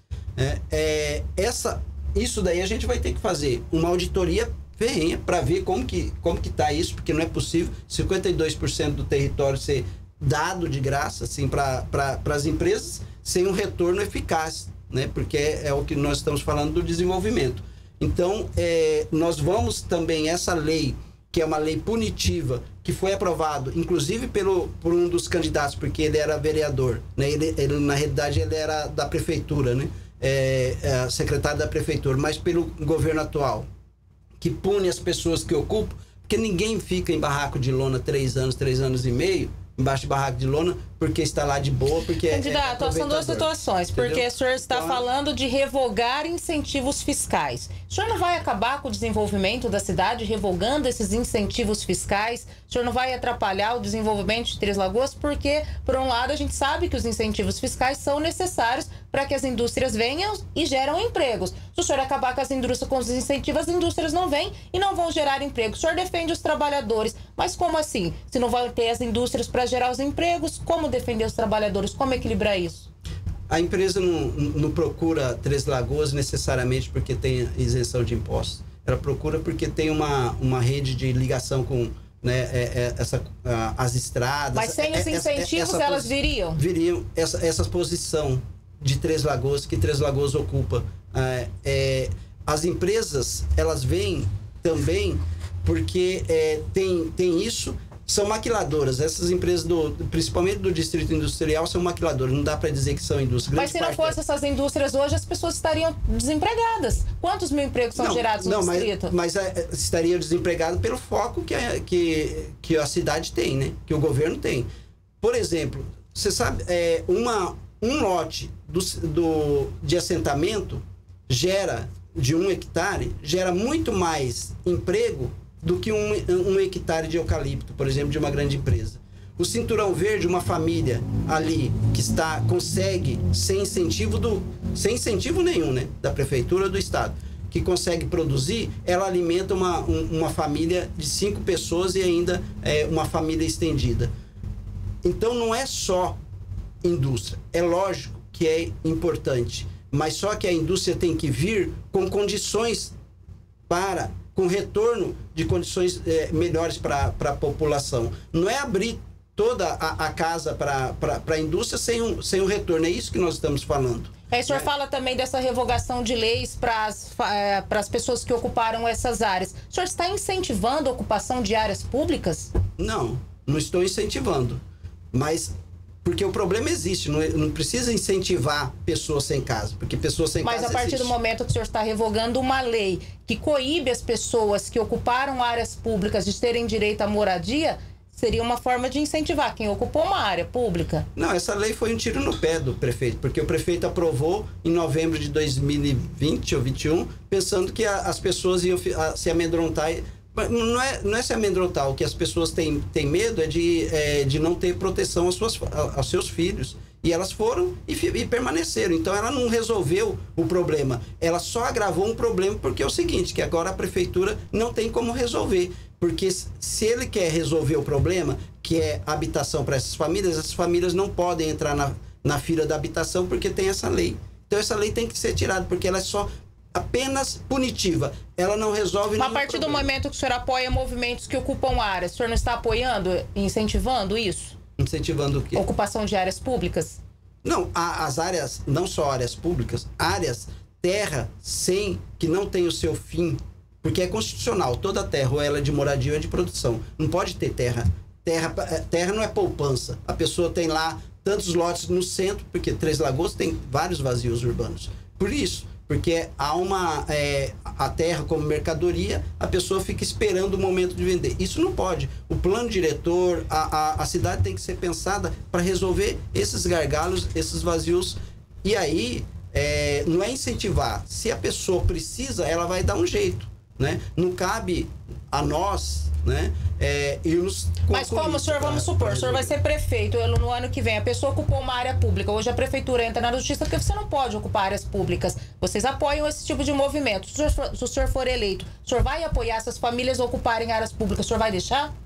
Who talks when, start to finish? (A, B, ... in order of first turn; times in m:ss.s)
0:00.4-0:33.7 A
0:34.4-0:45.0 A
0:42.3-1:12.9 B
1:13.5-1:44.2 A
1:24.5-1:26.6 B
1:43.5-1:49.1 B
1:47.9-1:54.7 A
1:55.2-2:24.1 A
2:25.0-2:26.2 A
2:26.8-2:32.9 A
2:33.7-2:44.7 A
2:44.3-2:52.5 B
2:52.8-2:54.6 A
2:55.1-2:55.5 A
2:56.0-3:01.1 A
3:00.4-3:11.0 B
3:11.2-3:49.9 A
3:49.2-3:54.5 B
3:54.8-3:55.6 A
3:55.5-3:57.0 B
3:57.4-4:39.5 A
4:37.9-4:51.9 B